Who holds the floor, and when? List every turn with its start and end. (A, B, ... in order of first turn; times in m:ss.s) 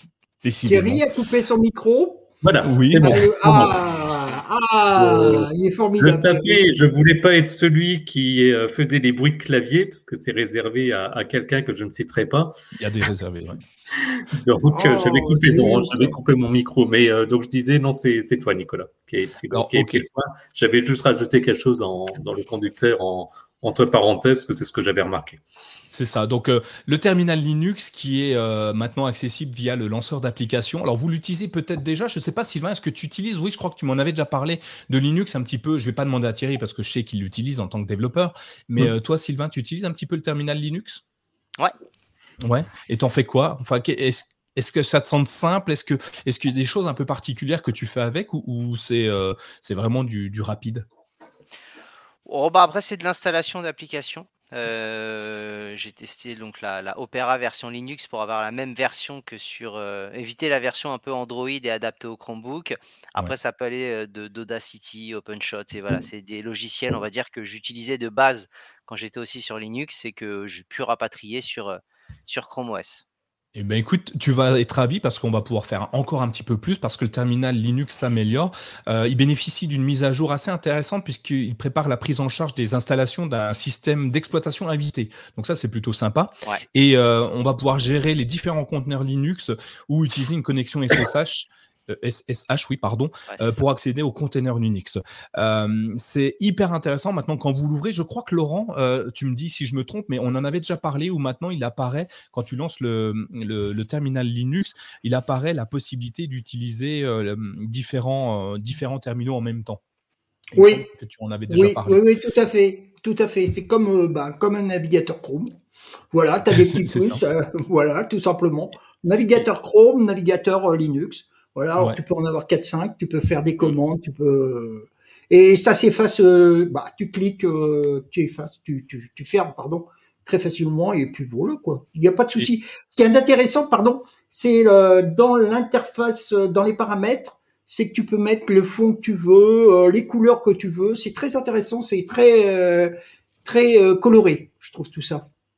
0:00.4-0:01.0 A
0:00.6-0:02.3 B
0:02.4-0:03.8 C
0:02.6-0:03.1 A
0:03.0-0:06.6 B
0:05.0-0:12.5 C
0:12.8-0:13.6 A
0:14.2-0:25.4 C
0:14.7-0:16.2 B
0:19.5-0:20.0 A
0:25.9-0:41.0 A
0:42.4-0:50.9 A
0:52.2-1:13.0 D
1:13.5-1:49.8 A
1:33.3-1:33.6 D
1:50.5-1:52.0 A
1:50.5-1:50.9 B
1:51.5-1:55.6 B
1:56.1-2:22.9 B
1:56.5-1:57.2 A
2:23.4-2:25.3 B